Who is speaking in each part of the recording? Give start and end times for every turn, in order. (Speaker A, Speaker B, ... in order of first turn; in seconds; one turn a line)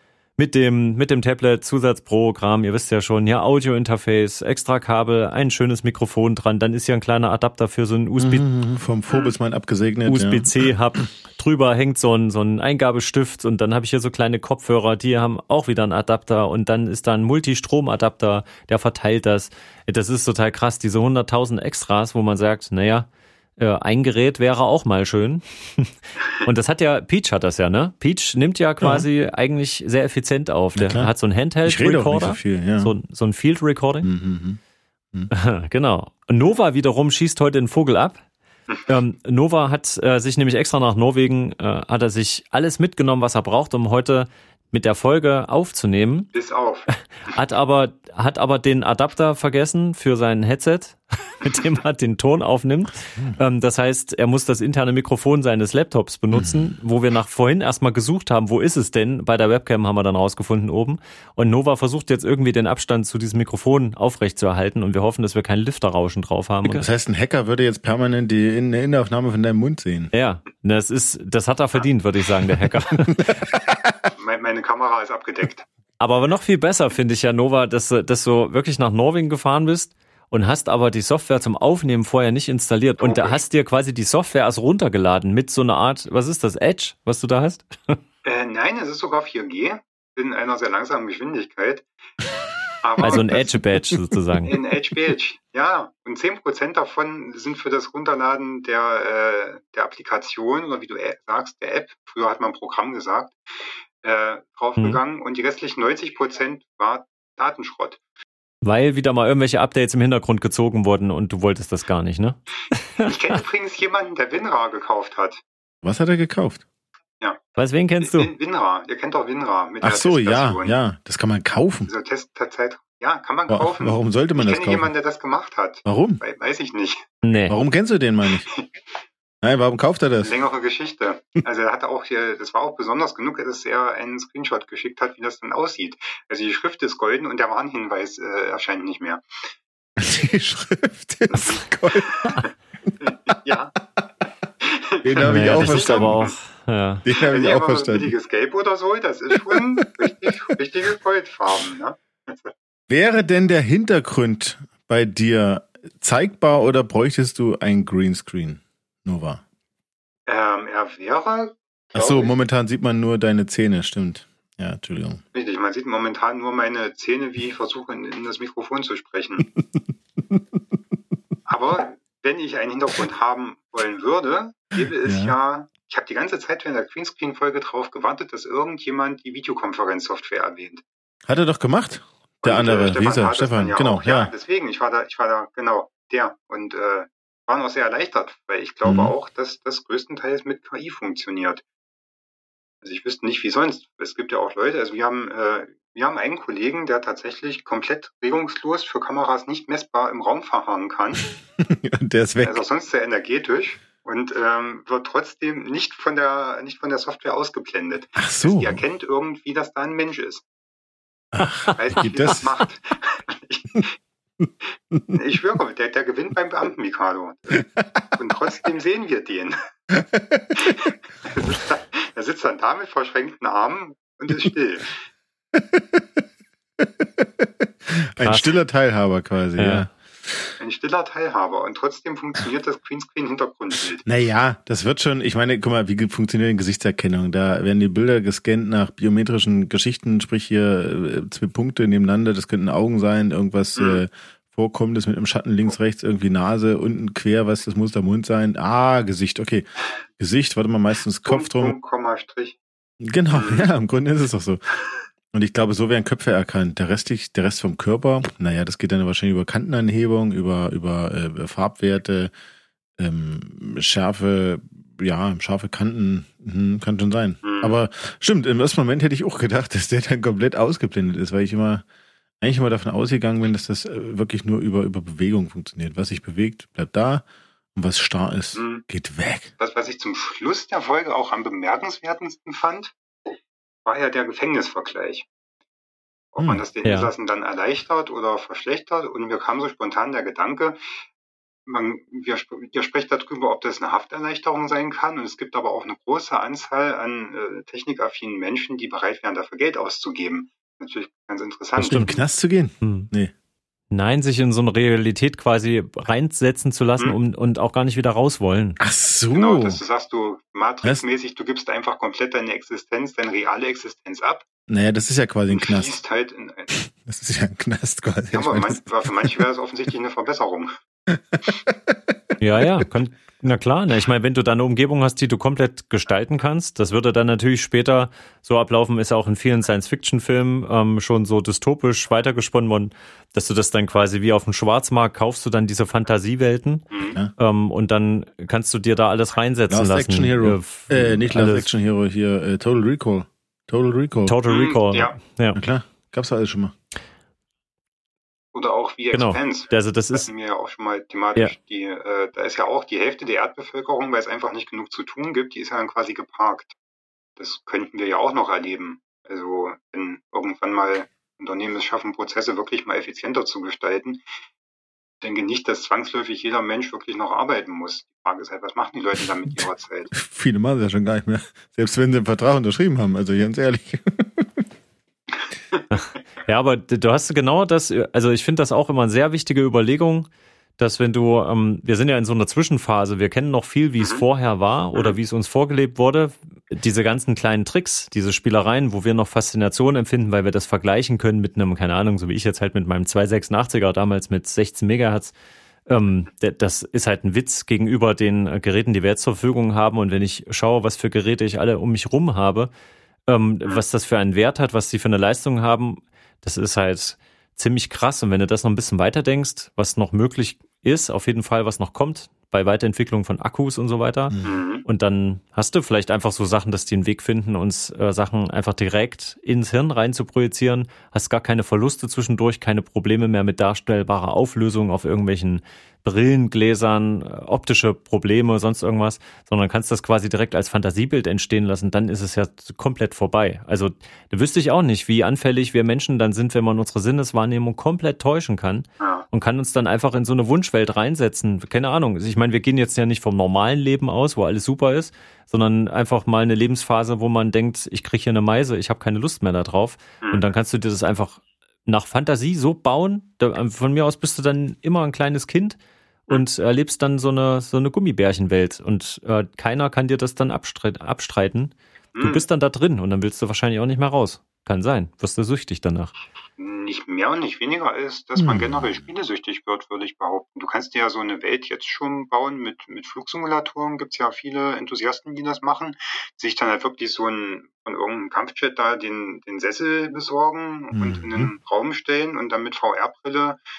Speaker A: 0.4-8.4
Speaker B: 8.2-10.5
Speaker A: 10.1-34.1
Speaker B: 28.8-29.1
Speaker B: 30.8-31.1
Speaker B: 31.6-32.9
Speaker B: 34.0-34.6
Speaker A: 35.3-38.2
Speaker A: 38.9-46.3
Speaker C: 46.3-46.9
Speaker A: 47.3-66.9
Speaker B: 56.3-56.7
Speaker B: 66.6-70.1
Speaker A: 70.1-73.2
Speaker B: 72.6-74.1
Speaker C: 74.2-75.7
Speaker A: 76.0-88.0
Speaker C: 83.0-83.4
Speaker C: 88.2-91.9
Speaker C: 92.8-93.5
Speaker A: 93.0-94.5
Speaker B: 93.1-94.2
Speaker C: 94.5-108.0
Speaker A: 108.6-113.1
Speaker C: 113.0-115.4
Speaker B: 115.8-116.6
Speaker A: 117.6-118.3
Speaker C: 118.0-120.8
Speaker B: 119.8-121.9
Speaker C: 121.9-127.1
Speaker B: 123.5-124.9
Speaker B: 125.9-126.2
Speaker A: 127.2-127.6
Speaker B: 127.5-128.5
Speaker C: 128.5-128.7
Speaker B: 129.4-130.3
Speaker C: 130.2-139.4
Speaker B: 140.0-142.4
Speaker C: 141.3-143.8
Speaker C: 144.6-146.3
Speaker B: 145.0-146.3
Speaker A: 145.2-147.1
Speaker B: 147.1-148.1
Speaker C: 147.1-152.5
Speaker B: 149.5-150.3
Speaker B: 152.9-159.4
Speaker C: 160.3-162.3
Speaker B: 161.9-165.2
Speaker C: 165.3-169.5
Speaker B: 169.6-170.6
Speaker C: 171.5-180.8
Speaker B: 174.8-175.3
Speaker B: 181.3-184.3
Speaker C: 182.4-191.6
Speaker B: 188.8-189.1
Speaker C: 192.8-201.3
Speaker B: 201.6-202.6
Speaker C: 202.4-210.4
Speaker B: 208.2-208.8
Speaker B: 211.3-212.6
Speaker C: 211.7-213.9
Speaker B: 214.4-215.1
Speaker C: 215.1-217.6
Speaker B: 217.7-218.0
Speaker C: 218.2-219.6
Speaker B: 219.9-220.9
Speaker C: 220.6-225.0
Speaker B: 225.5-226.2
Speaker B: 226.8-230.5
Speaker A: 228.2-228.6
Speaker A: 229.6-229.9
Speaker C: 230.6-234.1
Speaker B: 234.0-251.8
Speaker C: 243.8-244.0
Speaker C: 251.2-252.6
Speaker B: 253.0-254.6
Speaker C: 253.3-253.7
Speaker B: 255.3-262.3
Speaker B: 263.0-271.9
Speaker C: 267.4-267.8
Speaker B: 272.4-279.5
Speaker C: 278.6-278.8
Speaker C: 279.6-282.9
Speaker C: 283.9-285.3
Speaker C: 286.3-291.0
Speaker A: 286.8-287.1
Speaker C: 291.7-302.2
Speaker B: 301.8-303.3
Speaker A: 302.8-303.1
Speaker A: 303.9-308.8
Speaker B: 308.8-309.8
Speaker C: 309.3-314.4
Speaker B: 314.7-316.0
Speaker C: 315.5-316.7
Speaker B: 316.7-319.4
Speaker C: 318.3-320.7
Speaker B: 321.1-322.7
Speaker A: 322.4-341.7
Speaker C: 336.9-337.2
Speaker B: 339.7-344.4
Speaker A: 344.3-345.6
Speaker C: 344.5-345.2
Speaker B: 345.6-346.7
Speaker C: 348.5-356.7
Speaker A: 349.1-350.3
Speaker C: 357.4-364.4
Speaker C: 365.2-370.1
Speaker B: 370.1-374.6
Speaker C: 375.3-376.0
Speaker A: 375.9-395.3
Speaker A: 395.9-402.7
Speaker A: 403.3-466.1
Speaker B: 414.3-414.6
Speaker C: 414.4-414.9
Speaker C: 439.0-439.3
Speaker C: 462.1-462.4
Speaker C: 466.6-483.6
Speaker B: 468.4-469.0
Speaker B: 480.9-481.5